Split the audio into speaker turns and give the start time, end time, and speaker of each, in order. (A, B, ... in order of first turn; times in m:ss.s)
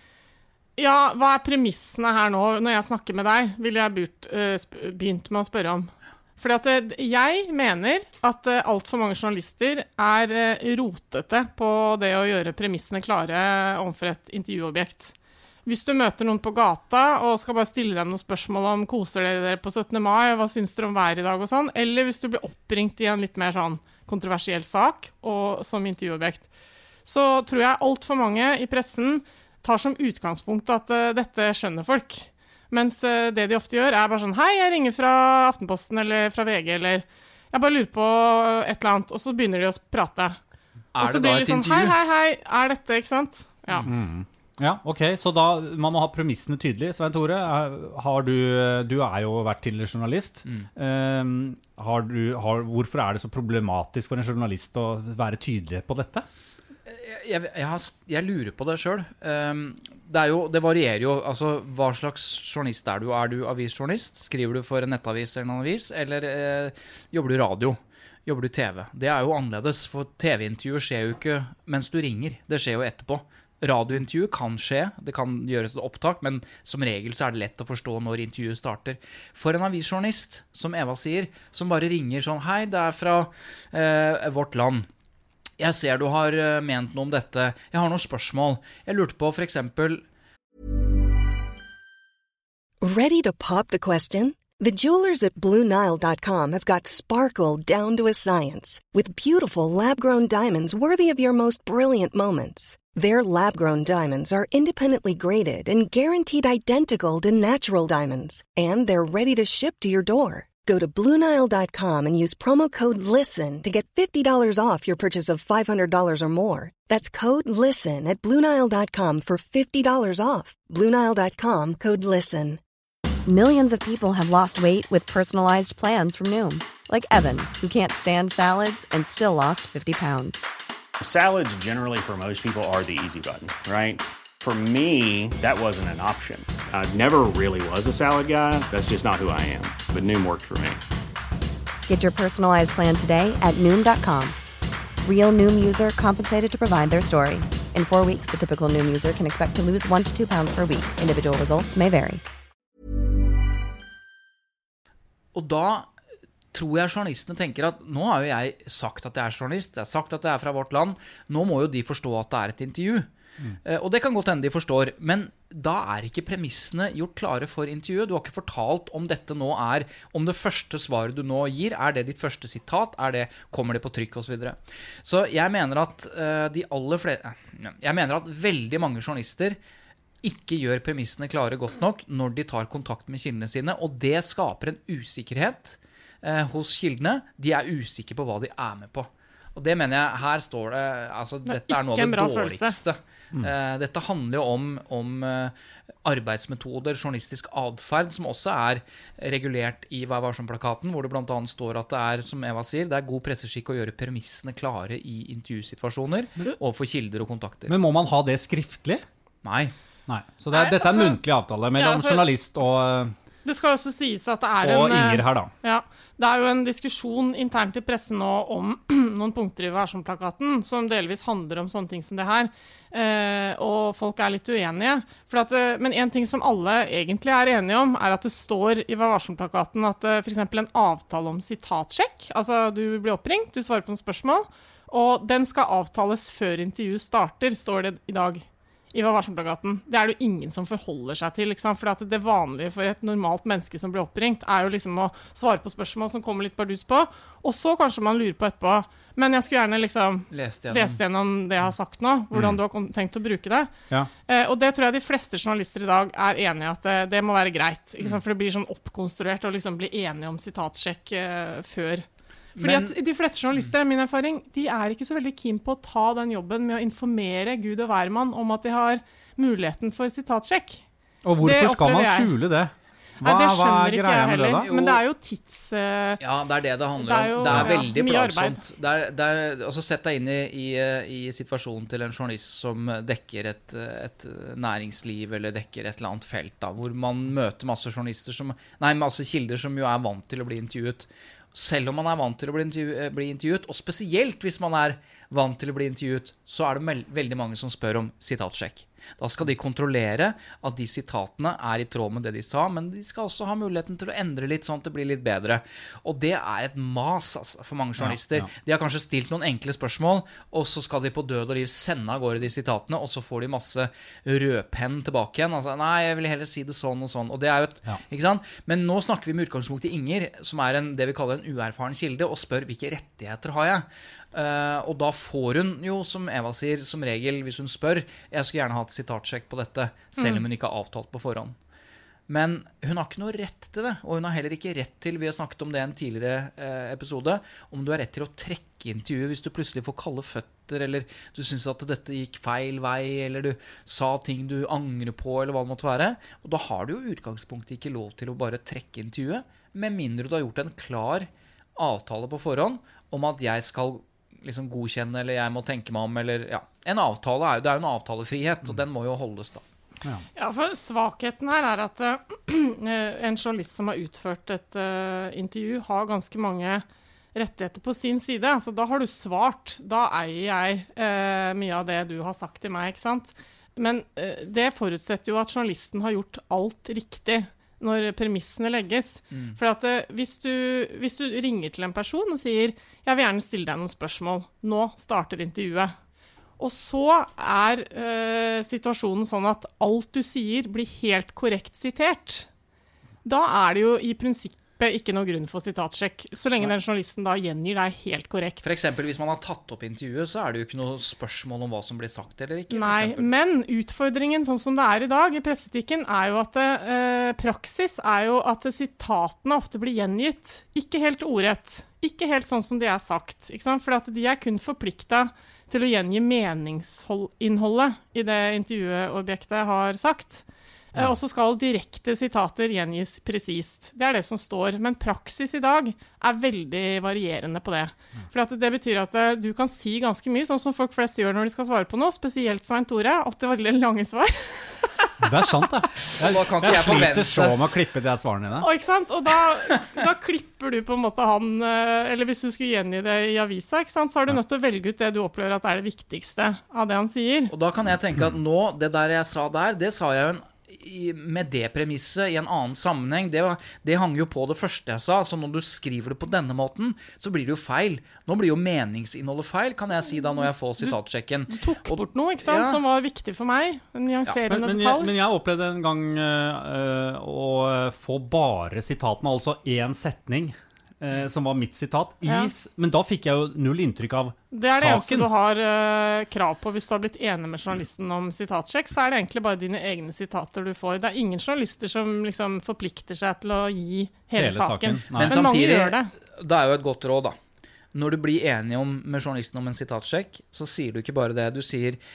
0:00.8-0:15.1 A
0:15.7-0:26.5 A
0:27.0-0:40.4 A
0:40.9-0:42.0 B
0:41.0-0:43.9 A
0:43.9-0:56.3 C
0:56.9-1:24.9 B
1:25.6-1:30.0 B
1:32.8-2:02.6 D
2:03.3-2:10.5 E
2:11.0-2:20.8 F
2:21.9-2:24.4 E
2:25.0-2:32.2 E
2:35.3-2:35.9 B
2:36.5-2:43.1 B
2:43.6-2:59.6 B
3:00.2-3:27.8 B
3:11.5-3:12.8 A
3:27.7-3:29.0 C
3:29.4-3:29.7 B
3:30.1-3:33.1 C
3:30.5-3:31.2 A
3:31.8-3:32.3 A
3:33.4-4:13.7 A
3:34.6-3:35.5 C
4:10.3-4:11.0 B
4:14.3-4:30.8 A
4:22.6-4:23.0 B
4:31.2-4:34.7 C
4:31.4-4:32.3 A
4:33.2-4:36.2 A
4:34.7-4:35.0 B
4:36.2-5:31.6 B
4:37.0-4:38.6 A
4:37.5-4:37.7 C
5:08.0-5:08.5 C
5:32.3-5:59.6 B
6:00.4-6:26.0 A
6:19.3-6:19.6 B
6:26.6-6:32.5 A
6:33.2-6:38.6 A
6:38.6-6:43.3 B
6:42.7-7:15.2 A
7:15.2-7:18.7 C
7:16.2-7:17.6 B
7:18.6-7:27.5 A
7:27.5-7:42.8 B
7:41.5-7:45.1 A
7:44.5-7:55.3 C
7:52.2-7:52.5 A
7:54.5-8:06.1 A
8:04.4-8:05.4 C
8:05.1-8:07.4 B
8:07.9-8:12.0 B